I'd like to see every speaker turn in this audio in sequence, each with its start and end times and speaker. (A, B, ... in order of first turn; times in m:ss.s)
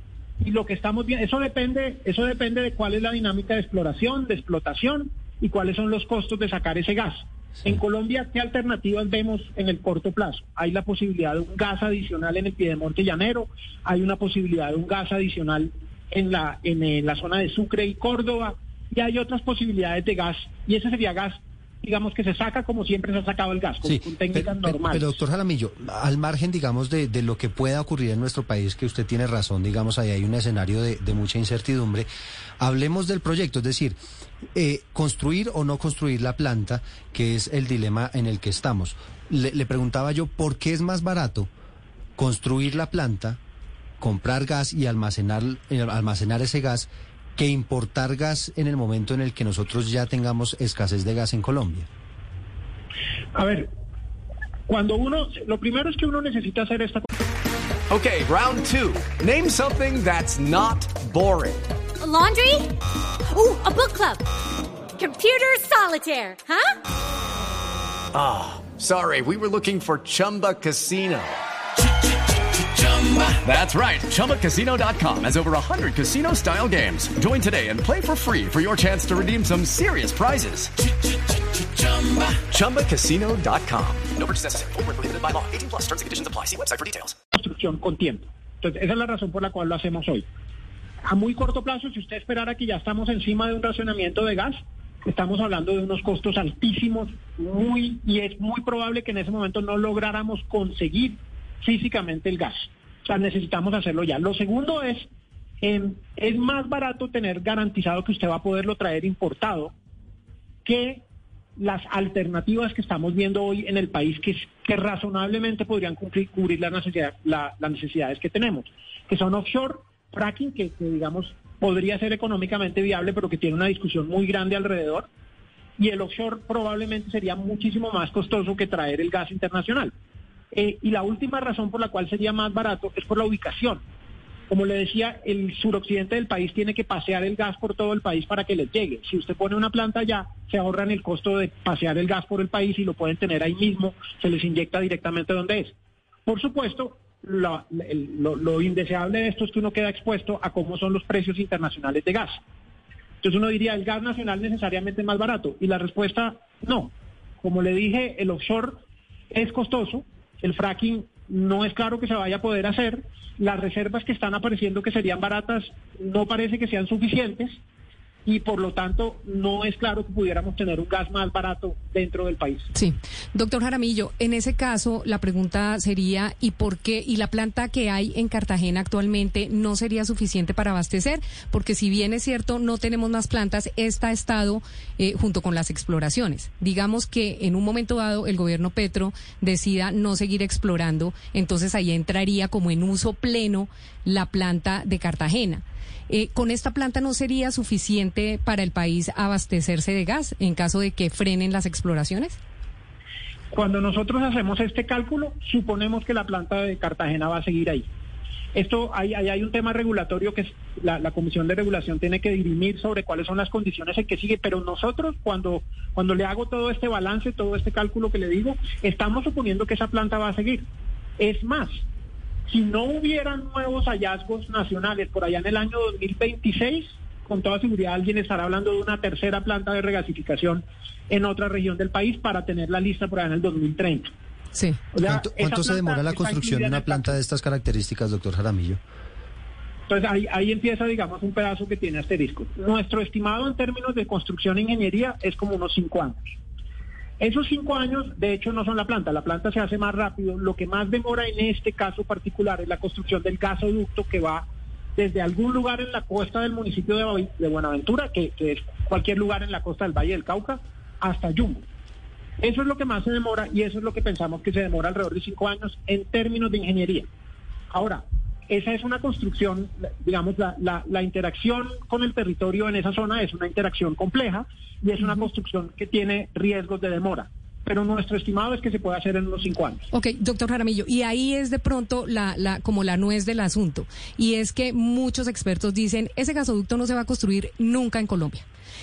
0:00.4-0:25.2 A
0:23.8-0:32.1 B
0:32.6-0:34.0 B
0:34.5-0:41.5 B
0:42.2-0:43.4 B
0:44.0-0:51.9 B
0:53.3-0:53.7 A
0:54.7-0:57.0 A
0:57.9-1:01.6 C
1:02.0-1:02.7 D
1:03.3-1:04.2 D
1:05.0-1:06.8 D
1:08.1-1:11.4 C
1:12.8-1:20.7 C
1:21.8-1:27.1 C
1:27.3-1:30.2 A
1:31.1-1:45.1 A
1:45.6-1:49.7 A
1:50.6-1:51.0 A
1:51.6-2:05.1 A
2:05.8-2:09.9 A
2:10.5-2:13.8 A
2:14.5-2:25.7 A
2:26.2-2:32.4 A
2:33.2-2:38.8 A
2:39.3-2:47.6 A
2:48.2-2:52.7 A
2:52.7-3:22.4 E
3:23.5-3:27.9 A
3:28.5-3:40.7 A
3:41.2-3:41.8 A
3:42.5-3:54.1 A
3:54.5-3:54.8 E
3:54.9-3:57.2 A
3:55.0-3:58.8 B
3:59.9-4:06.4 A
4:07.2-4:21.6 A
4:22.4-4:27.1 A
4:27.7-4:39.8 A
4:39.9-4:48.4 E